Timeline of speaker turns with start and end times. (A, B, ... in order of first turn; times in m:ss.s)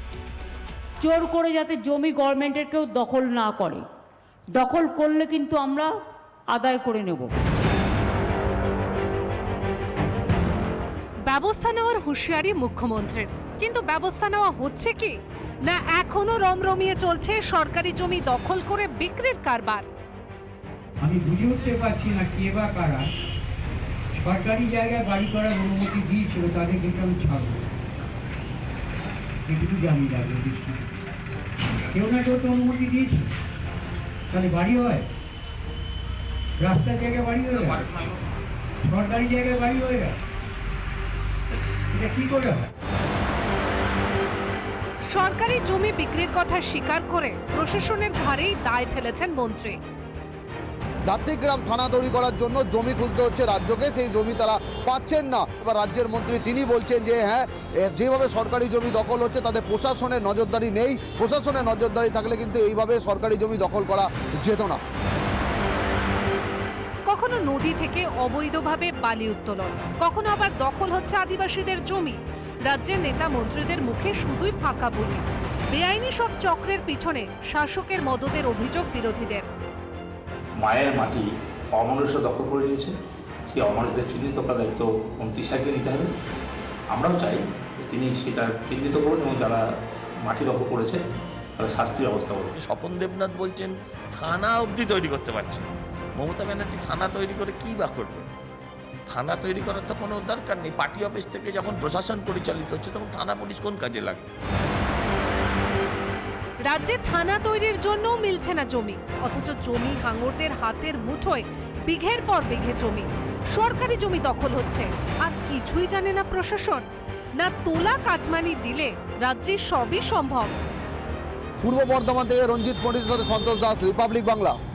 0:01.0-0:03.8 A
0:04.5-0:05.9 A
0:06.5-0:07.3 A
0:11.3-0:19.8 B
0:21.0-0:23.1 C
0:24.2-0:27.6 C
0:29.5-0:30.8 C
0:31.9-0:33.2 C
0:34.3-0:35.0 C
0:36.6-0:37.7 C
0:38.8-0:40.1 C
0:41.9-0:42.7 C
0:45.1-0:49.8 B
0:51.1-1:04.8 D
1:07.0-1:19.5 B
1:20.6-1:22.9 E
1:23.5-1:26.1 E
1:26.9-1:29.6 E
1:30.2-1:31.0 E
1:31.6-1:32.5 E
1:32.5-1:38.3 F
1:39.1-1:44.3 F
1:46.6-1:56.8 B
1:57.4-2:00.5 B
2:01.6-2:04.6 D